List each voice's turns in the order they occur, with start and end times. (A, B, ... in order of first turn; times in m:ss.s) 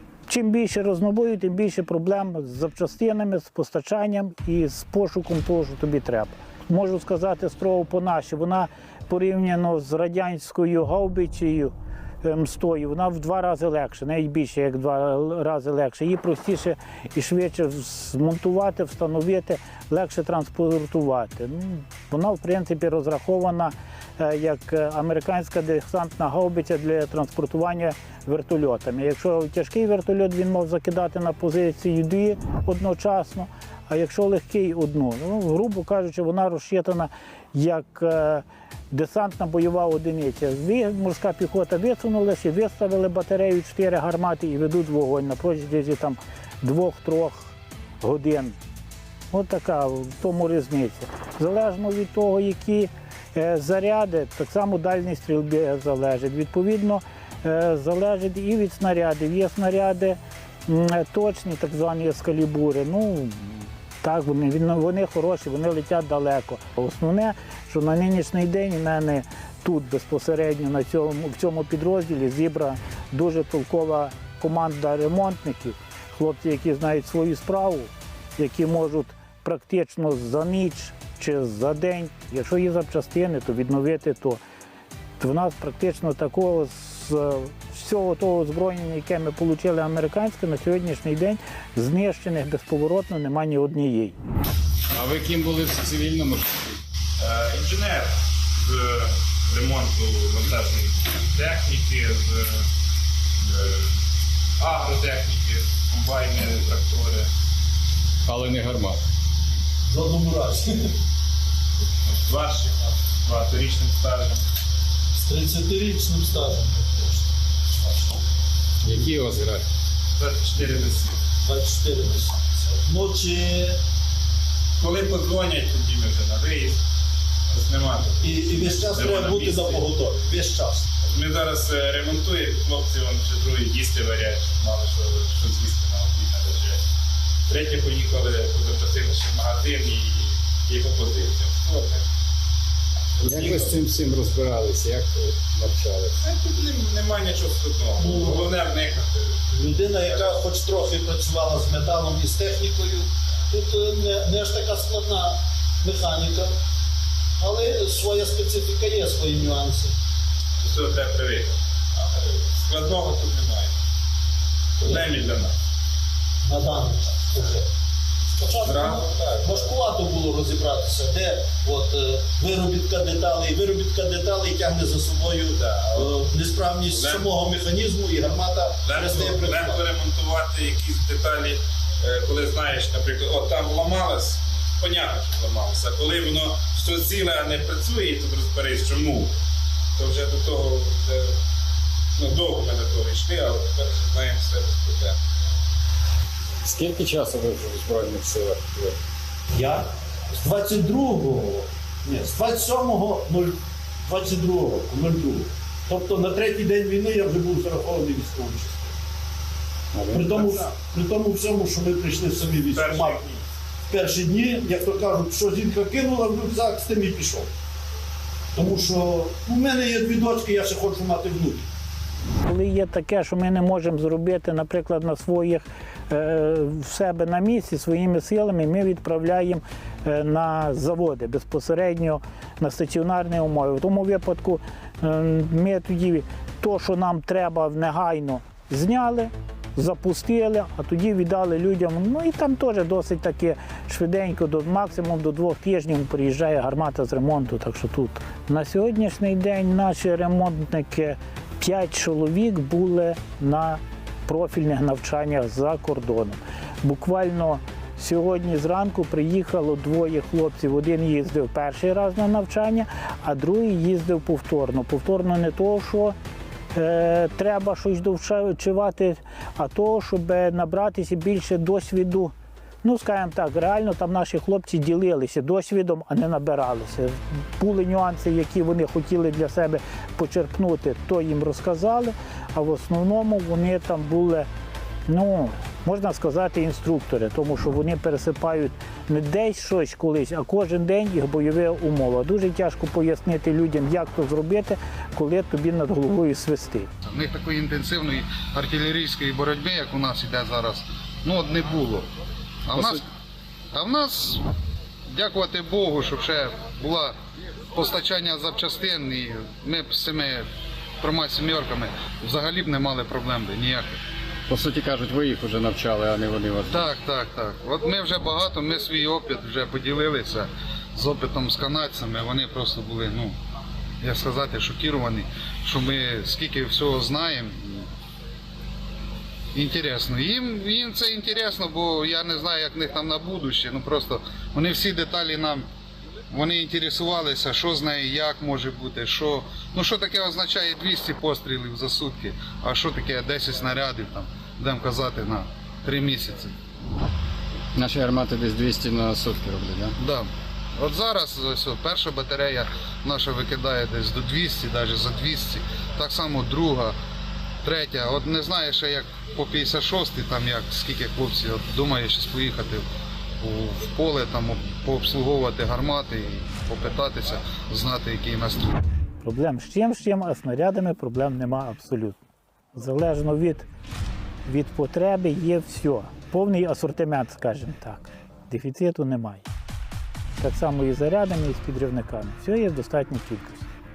0:00.3-0:48.6 A
0:49.3-1:24.4 A
1:25.2-1:34.2 A
1:34.9-1:36.8 B
1:37.2-1:42.6 C
1:43.4-1:43.9 C
1:44.6-1:47.3 C
1:48.3-1:49.0 B
1:49.9-1:51.0 D
1:52.1-1:54.4 C
1:55.2-1:57.3 D
1:58.8-1:59.6 B
2:00.2-2:01.2 C
2:01.4-2:03.8 D
2:04.8-2:06.8 C
2:07.5-2:10.0 C
2:08.2-2:10.9 D
2:11.0-2:16.8 C
2:17.5-2:22.0 C
2:23.2-2:26.1 B
2:23.2-2:23.6 C
2:23.4-2:23.7 D
2:26.2-2:30.5 C
2:28.0-2:28.4 D
2:29.5-2:36.5 D
2:37.4-2:40.0 D
2:40.6-2:43.8 C
2:44.8-2:45.5 C
2:46.4-2:47.7 D
2:48.4-2:59.8 D
2:48.5-2:50.0 C
2:54.6-2:57.3 C
2:58.8-3:09.3 C
3:10.0-3:11.4 C
3:12.2-3:15.2 C
3:16.6-3:19.0 B
3:19.5-3:28.9 D
3:29.9-3:30.4 B
3:30.1-3:33.2 D
3:30.3-3:30.8 C
3:32.7-3:33.4 C
3:33.9-3:37.5 D
3:38.6-3:41.7 D
3:42.4-4:26.2 A
4:26.8-4:44.5 A
4:45.1-4:56.9 A
4:57.1-5:02.1 E
5:02.7-5:03.0 E
5:03.7-5:04.4 E
5:05.1-5:07.2 E
5:07.7-5:10.5 E
5:11.0-5:14.0 E
5:14.5-5:16.9 B
5:16.7-5:23.4 E
5:24.0-5:27.9 E
5:29.5-5:35.7 E
5:36.3-5:46.6 E
5:47.7-5:50.0 B
5:50.0-5:57.0 E
5:57.6-6:02.8 E
6:03.4-6:08.7 E
6:09.2-6:12.2 A
6:12.7-6:13.7 A
6:14.4-6:19.5 A
6:20.4-6:23.7 A